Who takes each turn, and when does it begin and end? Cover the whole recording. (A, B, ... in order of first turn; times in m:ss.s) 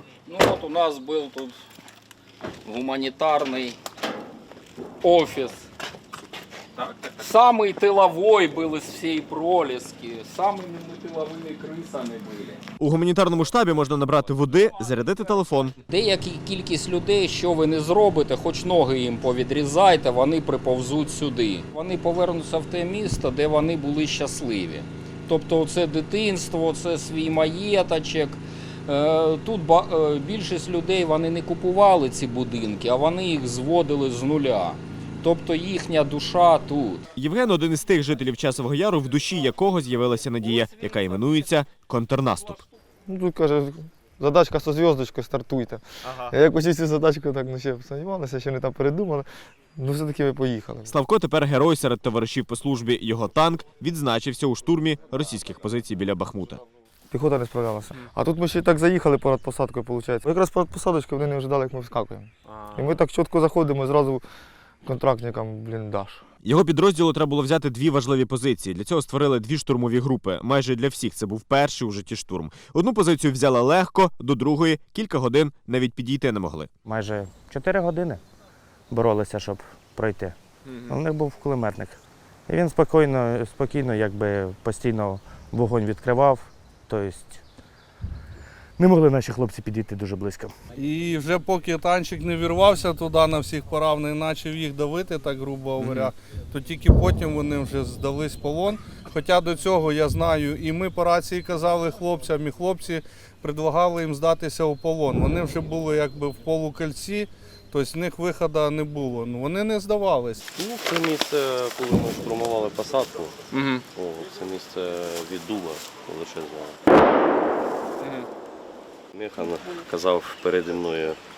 0:00.2-0:01.6 A
0:02.6-0:03.8 A
0:05.0-0:05.6 A
0:06.8-0:12.6 A
0:12.8-0:15.8 B
0:15.9-0:37.0 A
0:37.2-0:42.6 B
0:43.1-0:50.9 C
0:46.0-0:46.3 B
0:50.8-0:56.6 B
0:57.1-1:04.2 C
1:04.8-1:06.2 C
1:06.4-1:16.7 B
1:16.8-1:18.2 D
1:18.9-1:27.4 D
1:28.8-1:30.5 D
1:30.8-1:50.4 E
1:50.5-1:56.8 F
1:59.1-2:01.2 F